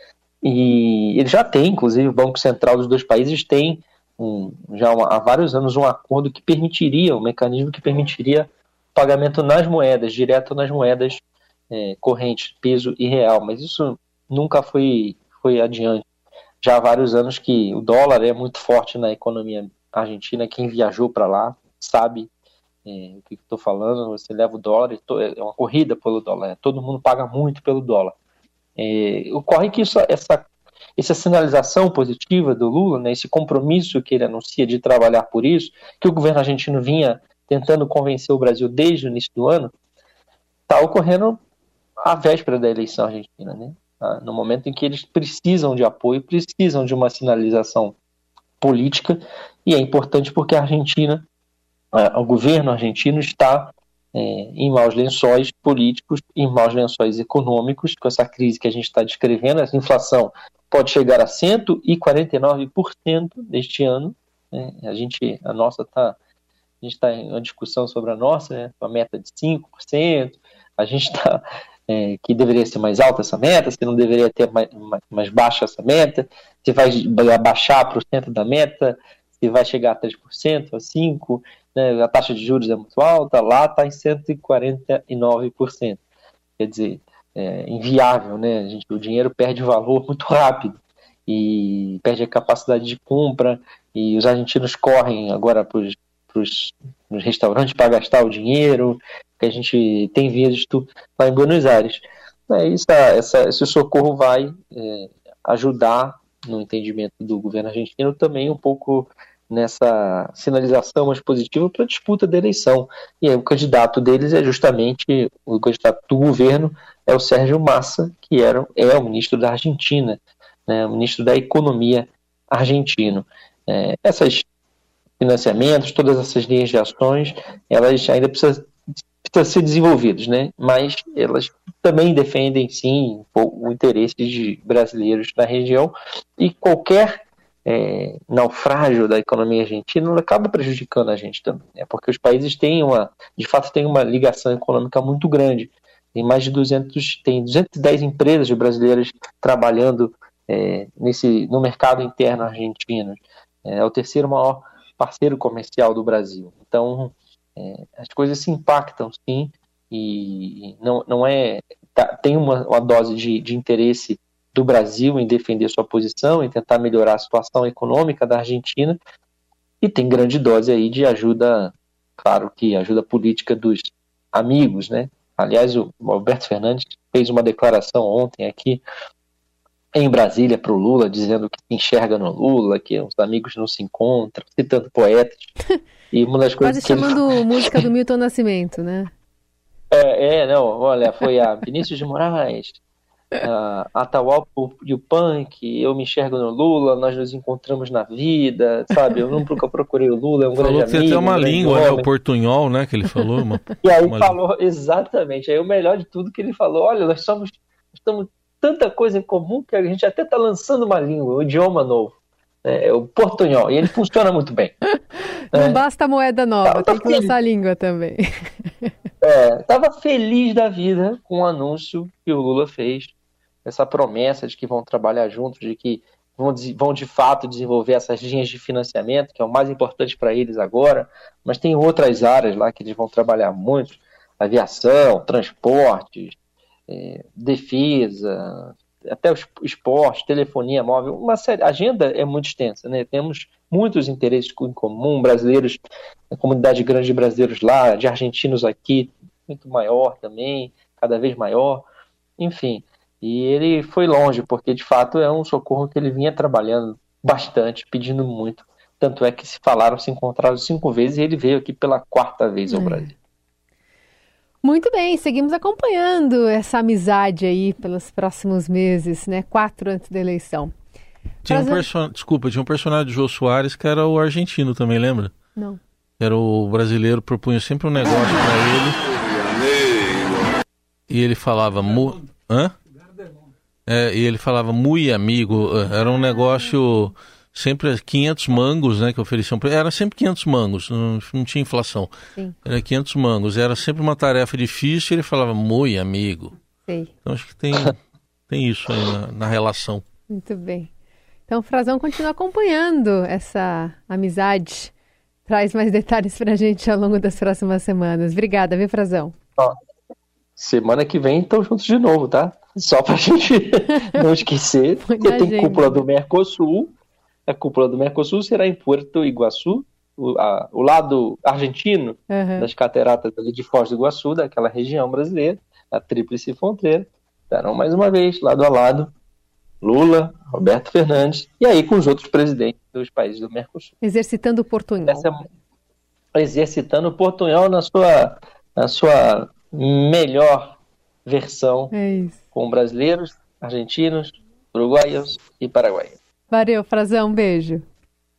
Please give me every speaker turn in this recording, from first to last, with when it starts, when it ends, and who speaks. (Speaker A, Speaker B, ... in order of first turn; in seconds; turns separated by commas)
Speaker A: 0.4-16.0, Speaker A: 16.6-22.3, Speaker A: 22.8-28.1, Speaker A: 28.8-39.7, Speaker A: 40.7-41.4, Speaker A: 42.0-48.0, Speaker A: 48.6-51.2, Speaker A: 51.9-66.2, Speaker A: 66.8-86.0, Speaker A: 86.6-124.4, Speaker A: 125.2-128.7, Speaker A: 129.2-169.0, Speaker A: 169.8-178.8, Speaker A: 179.9-185.5, Speaker A: 186.1-187.6, Speaker B: 186.6-189.1, Speaker A: 189.9-192.8, Speaker A: 193.4-202.1, Speaker C: 200.6-204.4, Speaker A: 203.8-214.8, Speaker A: 215.5-215.8, Speaker B: 215.5-218.9, Speaker A: 216.6-217.3, Speaker A: 219.2-236.4, Speaker A: 236.9-245.8, Speaker A: 246.3-251.9, Speaker A: 252.4-263.1, Speaker B: 262.7-263.1, Speaker B: 264.6-270.7, Speaker C: 271.4-275.3, Speaker B: 271.5-271.9, Speaker C: 276.2-279.0, Speaker C: 281.1-282.7, Speaker C: 283.9-292.1, Speaker C: 292.6-296.6, Speaker C: 297.2-297.9, Speaker C: 298.5-300.0, Speaker B: 300.3-300.9, Speaker B: 301.5-304.9, Speaker B: 305.4-309.3, Speaker A: 310.6-316.9, Speaker B: 313.9-314.2, Speaker B: 315.0-316.0, Speaker A: 317.5-329.1, Speaker B: 322.3-322.7, Speaker A: 329.8-333.9, Speaker B: 334.0-335.3, Speaker A: 335.1-335.4, Speaker A: 336.3-341.9, Speaker B: 341.9-342.4, Speaker A: 342.5-346.2, Speaker B: 346.5-347.8